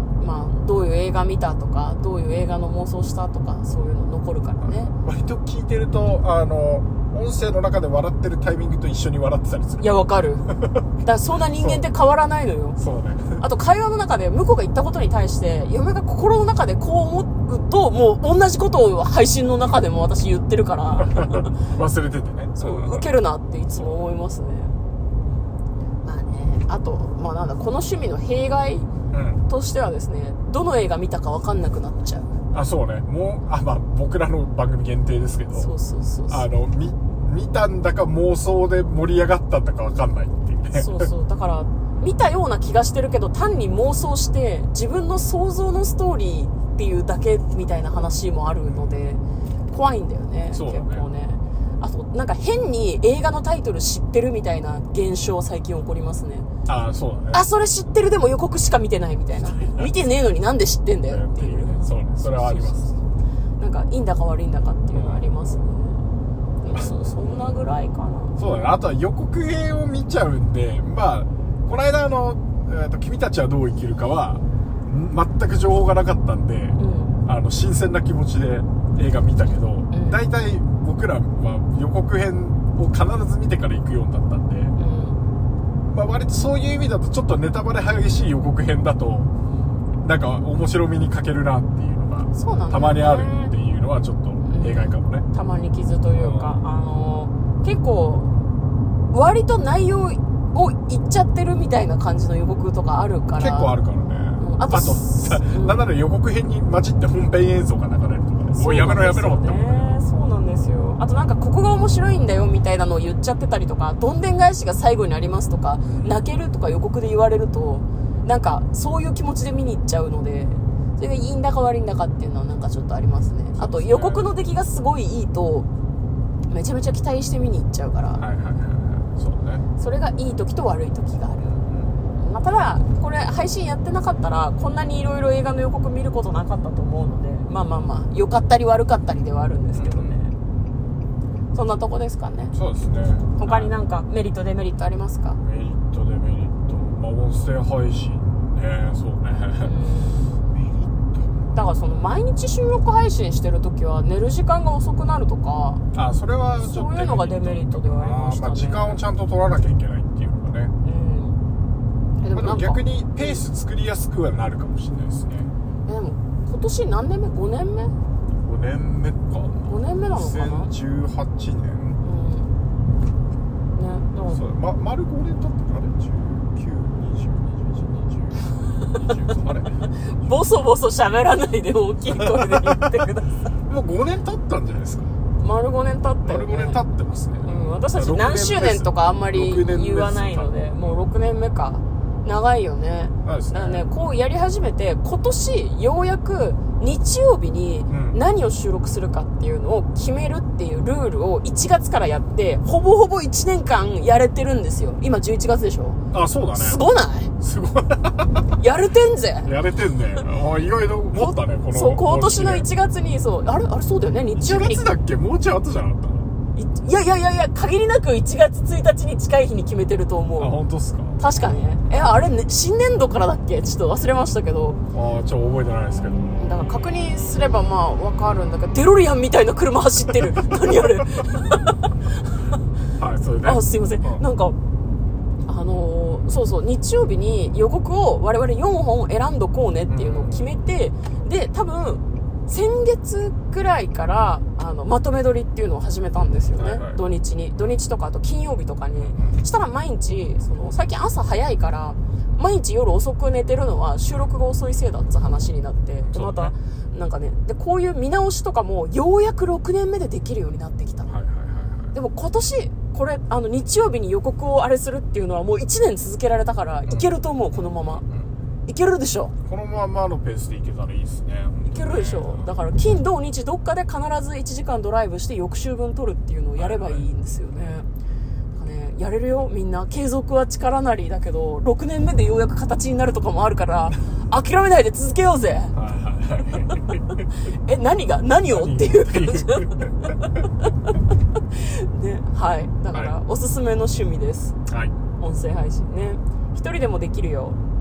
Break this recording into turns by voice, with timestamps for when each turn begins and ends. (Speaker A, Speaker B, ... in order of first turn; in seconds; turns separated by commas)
Speaker A: 0.2-4.9, Speaker B: 4.6-10.8, Speaker A: 9.8-10.4, Speaker A: 11.0-12.8, Speaker B: 11.6-11.8, Speaker B: 12.8-13.4, Speaker A: 13.4-21.6, Speaker B: 21.0-23.1, Speaker A: 22.6-24.8, Speaker B: 23.8-24.0, Speaker A: 26.0-28.9, Speaker B: 29.1-29.4, Speaker A: 29.5-32.3, Speaker B: 32.5-35.7, Speaker A: 35.5-36.4, Speaker B: 36.3-41.1, Speaker A: 40.7-56.5, Speaker B: 50.5-51.1, Speaker B: 56.7-57.5, Speaker A: 57.3-63.0, Speaker B: 59.4-59.9, Speaker B: 61.1-62.9, Speaker A: 63.6-66.0, Speaker B: 64.9-65.3, Speaker A: 66.6-68.8, Speaker B: 66.7-67.2, Speaker B: 68.4-84.8, Speaker A: 76.8-77.2, Speaker A: 79.9-80.2, Speaker A: 84.8-85.2, Speaker B: 85.9-89.3, Speaker B: 90.0-95.3, Speaker A: 92.3-93.5, Speaker A: 94.5-98.3, Speaker B: 96.2-96.6, Speaker A: 99.1-103.7, Speaker B: 103.3-110.0, Speaker A: 104.4-105.8, Speaker A: 108.5-125.7, Speaker B: 115.8-116.2, Speaker B: 123.6-124.3, Speaker A: 126.5-128.2, Speaker B: 128.2-129.7, Speaker A: 129.8-131.4, Speaker B: 131.4-132.0, Speaker A: 132.2-140.3, Speaker B: 139.7-140.2, Speaker A: 141.5-145.4, Speaker B: 142.5-143.8, Speaker B: 145.4-149.7, Speaker A: 149.6-150.4, Speaker B: 150.5-151.7, Speaker A: 151.5-155.8, Speaker B: 155.9-160.7, Speaker A: 156.6-159.0, Speaker A: 160.8-161.4, Speaker A: 162.2-163.4, Speaker B: 162.3-165.5, Speaker A: 165.9-167.9, Speaker B: 168.4-172.0, Speaker A: 169.7-170.7, Speaker A: 172.0-172.6, Speaker A: 173.8-174.4, Speaker B: 174.2-180.6, Speaker A: 180.2-183.3, Speaker B: 182.2-182.8, Speaker B: 183.7-185.1, Speaker A: 185.4-186.8, Speaker B: 186.2-191.0, Speaker A: 187.4-206.0, Speaker B: 193.2-193.8, Speaker B: 197.9-198.2, Speaker B: 206.1-206.8, Speaker A: 206.5-207.3, Speaker B: 207.4-208.5, Speaker A: 208.6-209.5, Speaker B: 209.4-212.7, Speaker A: 211.2-214.9, Speaker B: 214.3-216.3, Speaker A: 216.6-220.6, Speaker B: 220.4-221.7, Speaker A: 221.2-224.8, Speaker B: 224.9-226.3, Speaker A: 226.4-231.8, Speaker B: 233.0-234.2, Speaker A: 233.4-234.6, Speaker A: 235.4-261.1, Speaker B: 239.9-240.5, Speaker B: 246.6-247.0, Speaker B: 249.0-249.4, Speaker B: 256.1-256.6, Speaker B: 261.1-262.0, Speaker A: 261.9-268.0, Speaker B: 266.9-268.3, Speaker A: 268.7-269.3, Speaker B: 269.5-272.6, Speaker A: 271.7-277.9, Speaker B: 276.6-277.8, Speaker A: 278.6-285.8, Speaker B: 285.7-287.2, Speaker A: 287.5-290.1, Speaker B: 288.5-290.1, Speaker A: 290.7-291.0, Speaker A: 291.5-294.6, Speaker B: 294.7-294.9, Speaker A: 295.2-297.6